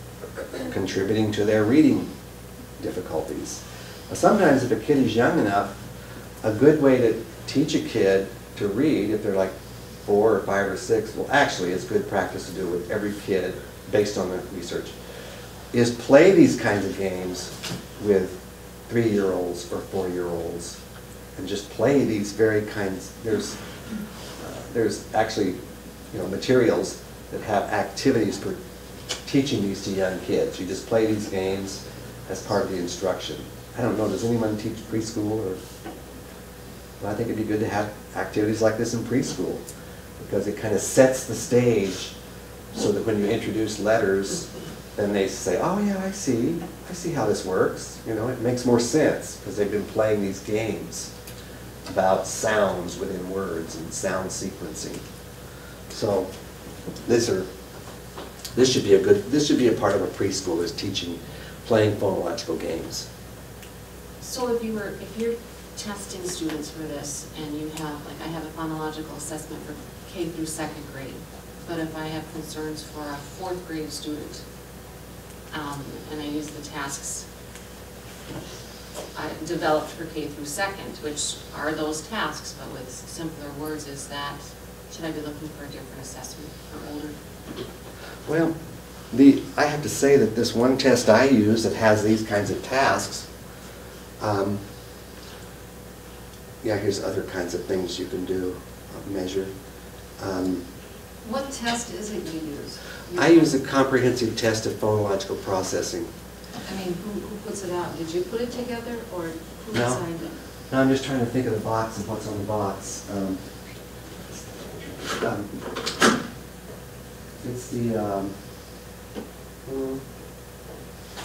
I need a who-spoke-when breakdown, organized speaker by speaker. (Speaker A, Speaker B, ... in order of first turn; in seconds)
Speaker A: 0.3-2.1, 2.8-5.8, 6.4-9.5, 10.1-14.9, 15.7-20.8, 21.4-23.6, 24.4-25.6, 26.1-28.6, 29.2-35.6, 37.0-39.6, 40.2-42.1, 42.7-51.1, 51.9-55.0, 55.9-56.3, 57.0-57.5, 58.5-63.1, 88.2-88.5, 89.1-93.3, 94.2-94.6, 96.6-99.5, 100.2-100.6, 103.1-106.1, 109.7-110.0, 110.7-113.4, 114.3-115.6, 117.4-118.3, 119.7-120.0
Speaker B: 64.2-74.4, 75.5-77.2, 79.1-87.1
Speaker C: 101.2-103.5, 106.6-110.3